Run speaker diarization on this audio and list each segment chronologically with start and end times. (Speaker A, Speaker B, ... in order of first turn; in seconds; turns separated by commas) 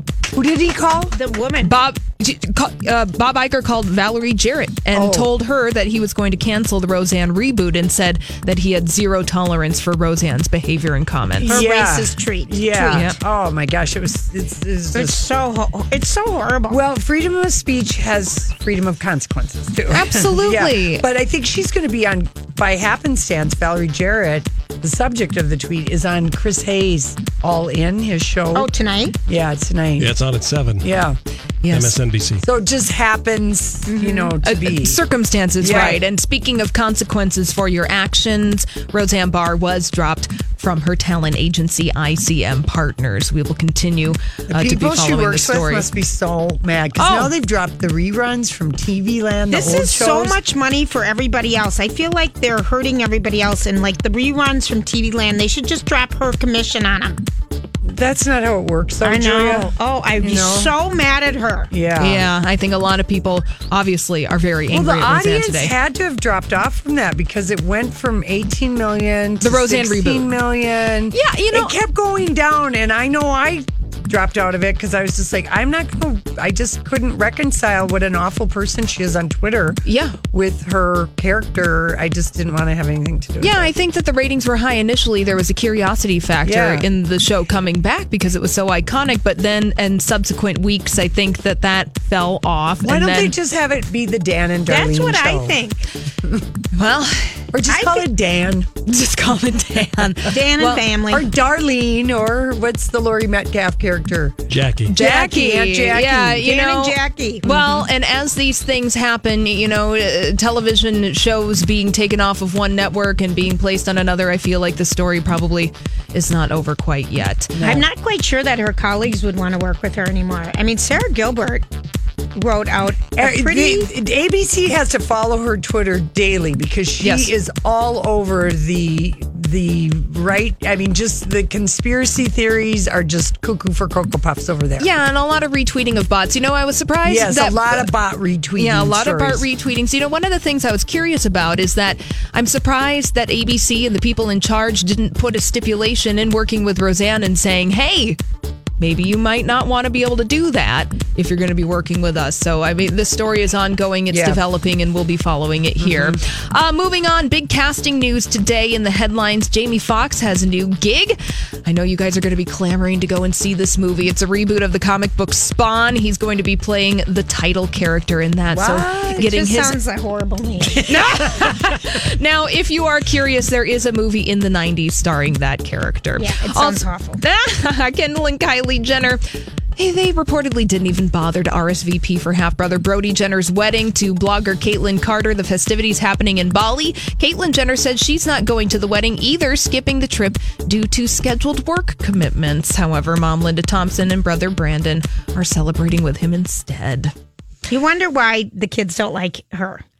Speaker A: 0.3-1.1, Speaker B: 1.1-1.7, Speaker C: 1.6-11.6, Speaker A: 4.9-5.3, Speaker A: 11.4-15.2, Speaker B: 11.4-13.0, Speaker C: 12.9-13.2, Speaker B: 14.9-16.8, Speaker A: 16.7-28.7, Speaker C: 19.9-21.0, Speaker B: 28.5-29.1, Speaker A: 29.3-30.1, Speaker D: 30.0-30.8, Speaker A: 30.8-31.2, Speaker C: 31.6-32.0, Speaker D: 31.7-32.4, Speaker A: 32.4-35.0, Speaker B: 34.0-34.3, Speaker C: 34.4-45.9, Speaker A: 35.6-36.0, Speaker A: 44.5-50.4, Speaker C: 47.0-47.3, Speaker B: 49.5-57.2, Speaker A: 57.8-60.7, Speaker B: 59.0-61.7, Speaker A: 61.7-62.3, Speaker C: 62.0-65.7, Speaker A: 64.7-83.7, Speaker C: 69.4-70.3, Speaker C: 71.1-71.8, Speaker C: 79.8-80.2, Speaker C: 83.4-93.3, Speaker A: 86.4-86.9, Speaker A: 92.8-95.6, Speaker B: 94.7-95.8, Speaker C: 96.7-97.5, Speaker A: 97.5-98.7, Speaker B: 97.7-98.1, Speaker C: 98.8-100.8, Speaker B: 100.3-101.2, Speaker A: 101.1-104.4, Speaker D: 104.5-104.9, Speaker C: 104.9-117.8, Speaker A: 104.9-106.5, Speaker B: 106.4-107.5, Speaker A: 107.5-107.8, Speaker A: 117.5-117.8, Speaker B: 117.6-121.7, Speaker B: 122.3-123.9, Speaker A: 123.1-134.9, Speaker C: 127.0-127.3, Speaker C: 134.8-137.9, Speaker A: 137.0-139.5, Speaker C: 138.5-148.2, Speaker C: 148.8-169.8, Speaker A: 154.1-154.4, Speaker A: 168.5-169.2, Speaker B: 169.2-170.9, Speaker C: 170.9-179.2, Speaker B: 176.2-177.2, Speaker C: 179.8-197.1, Speaker B: 197.7-199.8